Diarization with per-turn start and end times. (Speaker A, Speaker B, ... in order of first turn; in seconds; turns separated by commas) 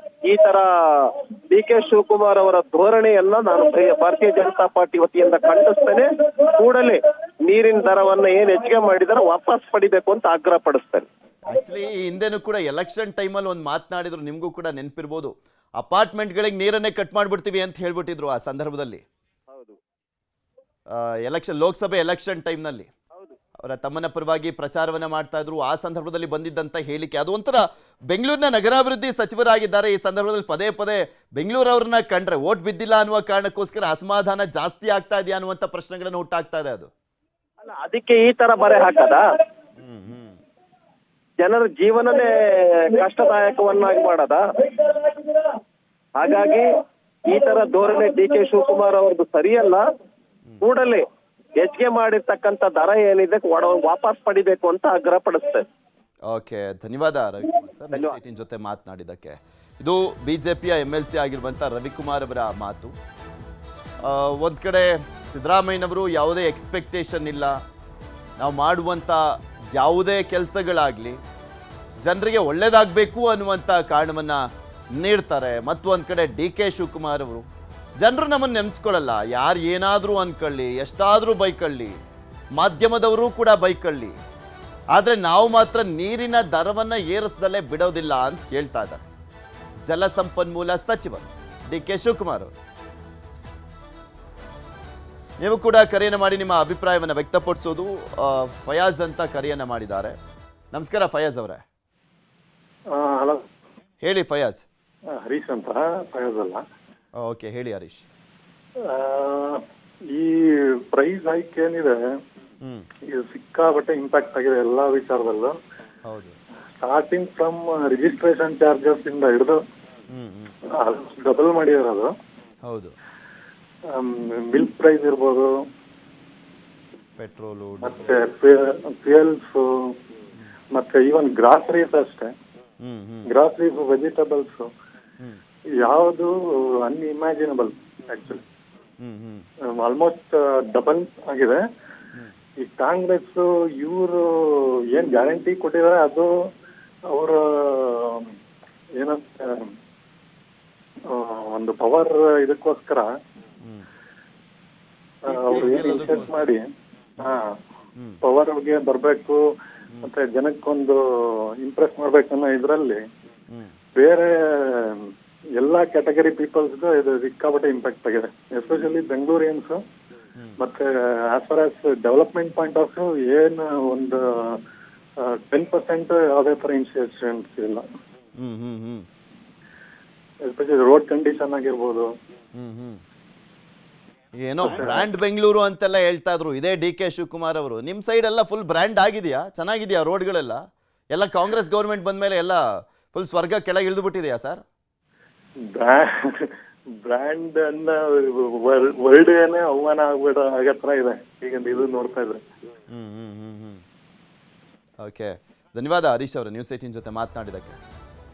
Speaker A: 0.2-11.1, Speaker B: 11.5-19.0, Speaker A: 19.5-19.8, Speaker B: 20.9-22.9, Speaker B: 23.6-36.9, Speaker A: 37.6-39.2, Speaker B: 39.8-40.4, Speaker A: 41.4-42.3, Speaker A: 42.9-45.5, Speaker A: 46.2-46.7, Speaker A: 47.3-49.8, Speaker A: 50.6-51.0, Speaker A: 51.6-55.6, Speaker B: 56.3-62.9, Speaker B: 64.0-67.6, Speaker B: 68.4-71.2, Speaker B: 72.0-74.4, Speaker B: 75.0-77.5, Speaker B: 78.0-82.0, Speaker B: 82.5-84.2, Speaker B: 84.9-89.0, Speaker B: 89.8-92.5, Speaker B: 95.4-100.2, Speaker B: 100.7-101.6, Speaker C: 102.9-103.4, Speaker B: 104.0-104.6, Speaker C: 105.2-106.6, Speaker B: 107.2-108.0, Speaker C: 108.8-109.6, Speaker C: 110.1-112.0, Speaker C: 113.1-115.5, Speaker B: 116.1-116.3, Speaker C: 116.8-119.6, Speaker B: 120.1-120.5, Speaker C: 120.8-122.1, Speaker B: 122.7-122.9, Speaker C: 123.9-125.5, Speaker B: 127.2-128.2, Speaker C: 127.8-129.9, Speaker C: 130.7-132.3, Speaker B: 132.8-133.3, Speaker C: 133.3-134.7, Speaker C: 135.8-138.4, Speaker B: 139.0-139.5, Speaker C: 139.8-141.6, Speaker C: 142.6-146.3, Speaker C: 147.1-148.3, Speaker C: 149.0-149.7, Speaker C: 151.1-153.1, Speaker C: 155.2-156.6, Speaker B: 155.3-156.5, Speaker C: 157.2-157.5, Speaker C: 158.2-159.4, Speaker C: 160.0-163.0, Speaker C: 163.9-165.0, Speaker C: 165.6-169.8, Speaker C: 170.6-174.6, Speaker C: 175.2-177.8, Speaker B: 178.4-179.1, Speaker C: 180.5-182.1, Speaker B: 182.6-183.0, Speaker B: 184.4-190.6, Speaker C: 184.6-185.1, Speaker B: 191.1-194.6, Speaker C: 195.7-196.5, Speaker C: 197.1-202.4, Speaker B: 202.9-203.8, Speaker B: 205.0-207.8